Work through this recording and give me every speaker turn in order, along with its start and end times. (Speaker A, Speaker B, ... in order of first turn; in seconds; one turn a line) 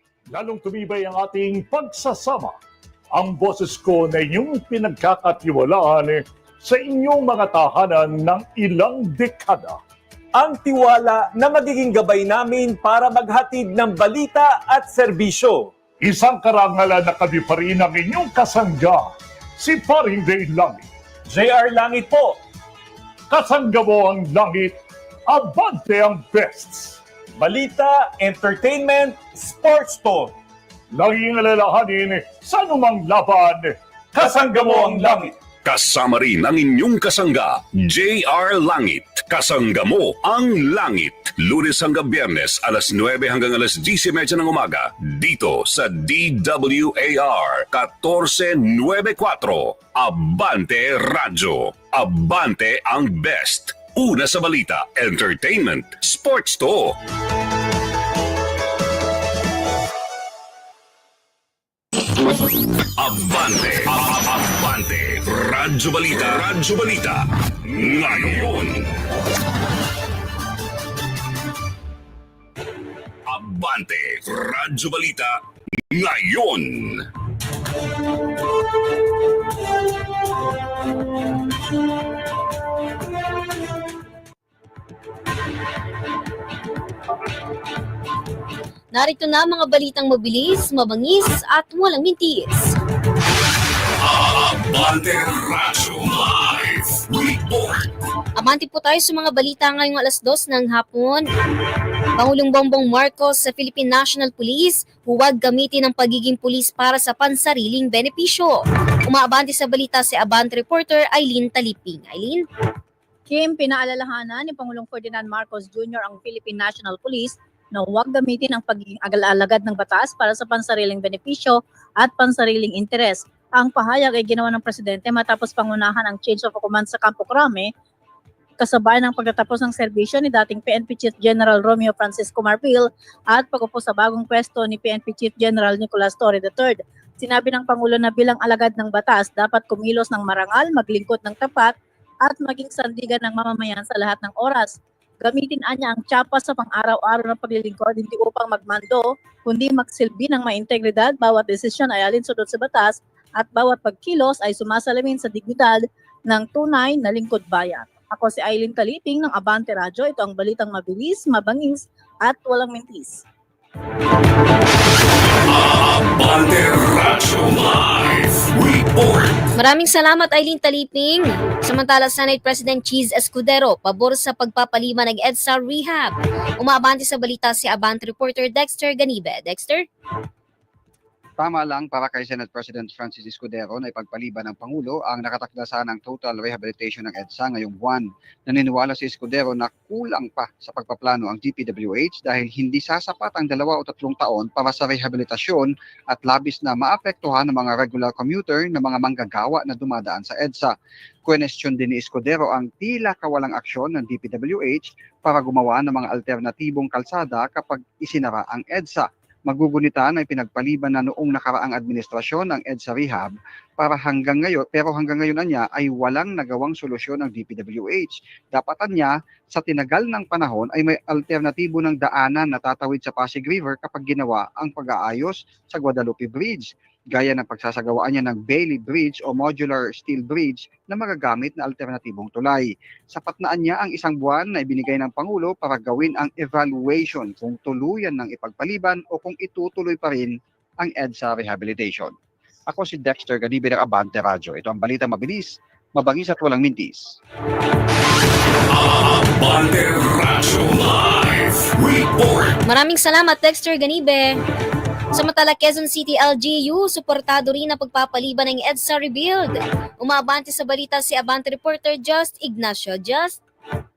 Speaker A: 0.3-2.5
Speaker A: 3.1-9.8
Speaker B: 10.3-15.7
Speaker A: 16.0-20.9
Speaker B: 21.3-22.4
Speaker A: 23.3-24.8
Speaker A: 25.3-27.0
Speaker B: 27.4-30.3
Speaker A: 30.9-35.3
Speaker B: 34.2-35.3
Speaker C: 35.6-57.0
Speaker C: 63.0-68.9
Speaker C: 73.3-75.4
Speaker C: 75.9-77.0
Speaker D: 88.9-92.7
Speaker C: 94.0-97.9
Speaker D: 98.3-101.3
Speaker D: 102.1-112.5
Speaker E: 113.3-127.7
Speaker E: 128.6-141.7
Speaker E: 142.2-163.2
Speaker C: 165.5-169.5
Speaker D: 169.6-179.9
Speaker F: 181.4-200.7
Speaker F: 201.2-242.1
Speaker F: 242.7-247.2
Speaker C: 248.7-252.6
Speaker D: 252.6-254.4
Speaker D: 255.1-263.4